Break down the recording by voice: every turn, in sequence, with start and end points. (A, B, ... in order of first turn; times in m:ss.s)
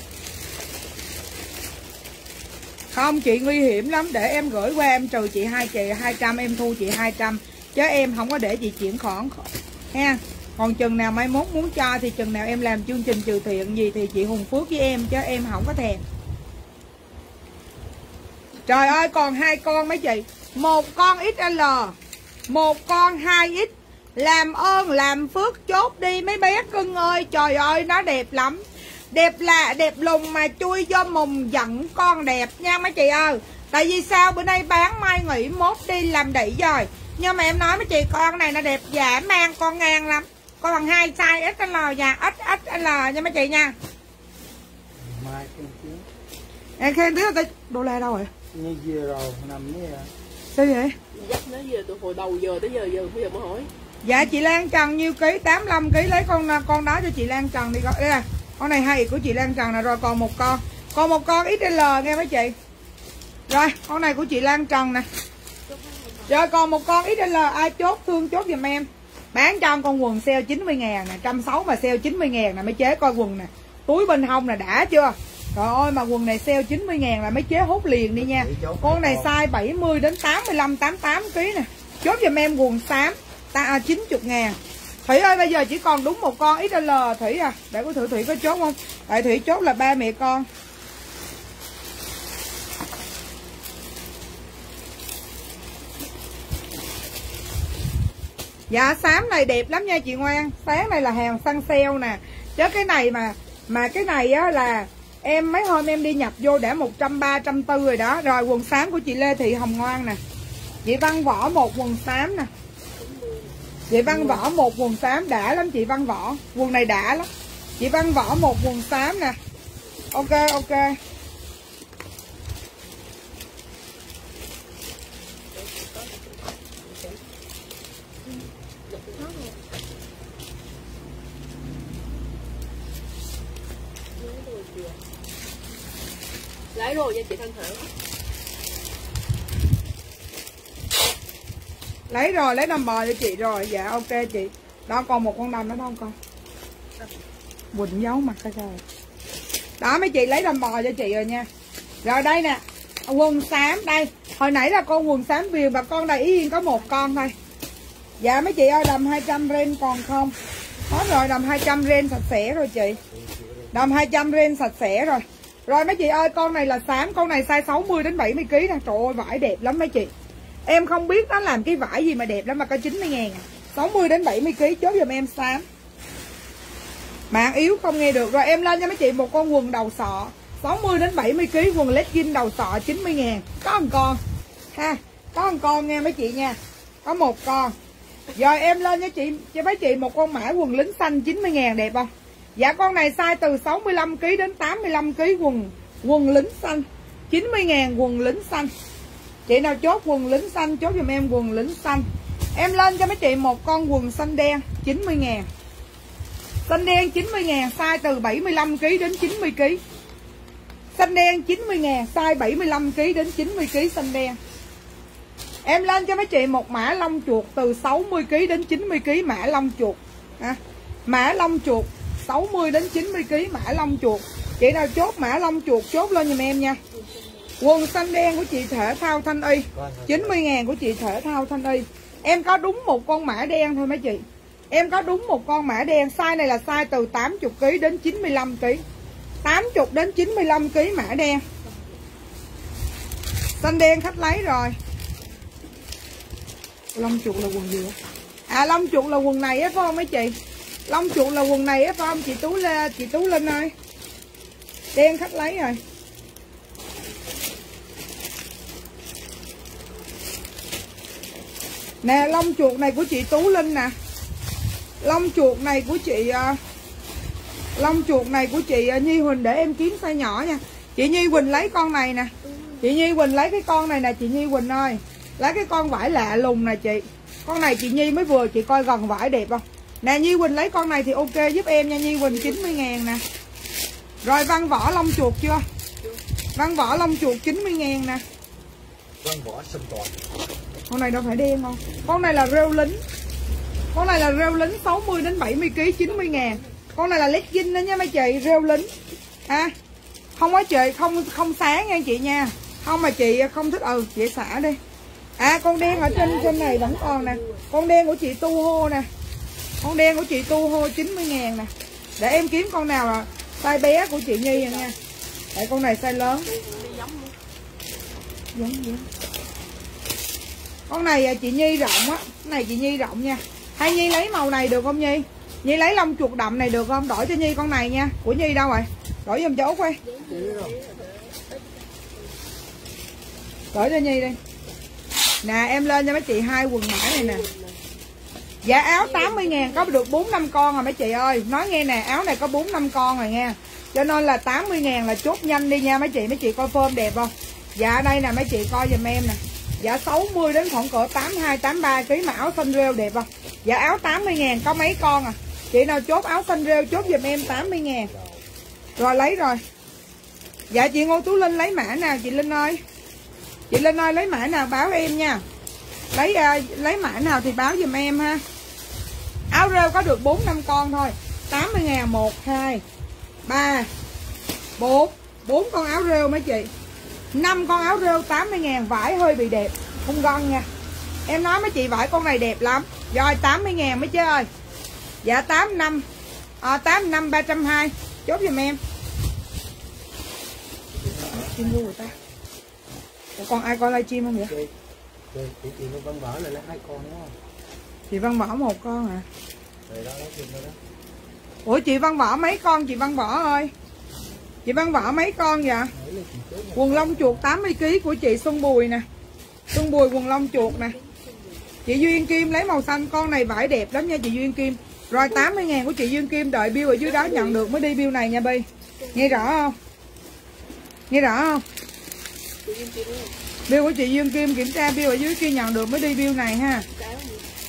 0:02.9-0:16.0 A
0:18.7-0:21.9 A
0:22.5-0:43.7 A
0:45.0-0:46.0 B
0:46.8-0:48.3 A
0:48.5-0:50.1 B
0:50.5-0:50.9 A
0:51.1-0:53.7 C
0:54.0-1:02.5 A
1:03.5-1:05.0 A
1:05.7-1:06.3 C
1:06.3-1:30.5 A
1:18.2-1:19.3 B
1:38.7-1:50.2 A
1:50.8-1:52.5 A
1:52.9-1:53.5 C
1:53.9-1:57.3 A
1:54.2-1:54.4 B
1:57.8-1:59.4 A
2:00.1-2:01.0 A
2:05.5-2:07.2 C
2:08.9-2:09.5 C
2:14.2-2:15.0 C
2:16.7-2:17.8 C
2:22.1-2:26.1 A
2:27.7-2:28.8 A
2:29.8-2:31.5 A
2:32.0-2:37.3 A
2:38.2-2:40.3 A
2:40.9-2:43.0 A
2:43.0-2:43.9 B
2:43.7-2:50.1 A
2:50.6-2:55.6 A
2:57.3-3:04.2 A
3:04.7-3:07.7 A
3:08.3-3:18.7 A
3:19.5-3:25.5 A
3:26.7-3:29.8 A
3:31.0-3:34.4 A
3:35.6-3:46.8 A
3:46.9-3:47.4 C
3:47.6-3:58.8 A
3:49.7-3:50.4 B
3:59.4-4:01.4 A
4:03.6-4:04.8 A
4:06.9-4:07.9 A
4:08.5-4:10.4 A
4:10.9-4:13.7 A
4:14.9-4:15.8 A
4:22.0-4:23.9 A
4:25.0-4:26.6 A
4:27.8-4:43.2 A
4:32.4-4:32.9 C
4:42.3-4:42.6 C
4:44.2-4:45.6 A
4:46.6-4:48.2 A
4:49.2-4:50.1 B
4:50.9-4:53.0 A
4:53.9-4:58.9 A
4:56.0-4:56.7 C
4:59.5-4:59.7 A
5:00.4-5:04.8 A
5:05.4-5:09.1 A
5:05.8-5:07.6 C
5:09.8-5:14.9 A
5:14.6-5:14.9 C
5:15.5-5:16.5 A
5:16.4-5:17.3 C
5:18.5-5:19.0 A
5:20.9-5:30.0 A
5:30.0-5:32.3 C
5:30.2-5:30.8 B
5:33.7-5:34.4 A
5:35.4-5:37.4 A
5:37.1-5:37.8 C
5:38.6-5:58.1 A
5:38.8-5:39.9 C
5:56.9-5:58.4 B
5:59.0-5:59.6 A
6:00.7-6:02.8 A
6:03.7-6:05.4 A
6:06.1-6:08.4 A
6:09.5-6:12.8 A
6:13.4-6:13.9 A
6:14.8-6:16.7 A
6:17.3-6:20.7 A
6:21.3-6:24.5 A
6:25.2-6:26.0 A
6:26.6-6:28.8 A
6:30.9-6:32.1 B
6:31.3-6:32.1 A
6:33.4-6:34.5 A
6:35.3-6:37.3 B
6:38.1-6:39.2 A
6:39.9-6:40.8 B
6:41.6-6:43.7 A
6:44.6-6:45.9 A
6:45.9-6:47.5 B
6:46.7-6:49.0 A
6:49.7-6:50.9 A
6:50.6-6:51.7 C
6:51.8-6:59.8 A
6:55.1-6:55.5 C
6:57.0-6:57.7 C
6:59.0-6:59.5 C
7:01.1-7:01.6 A
7:02.6-7:03.3 C
7:03.7-7:06.8 A
7:06.9-7:07.4 C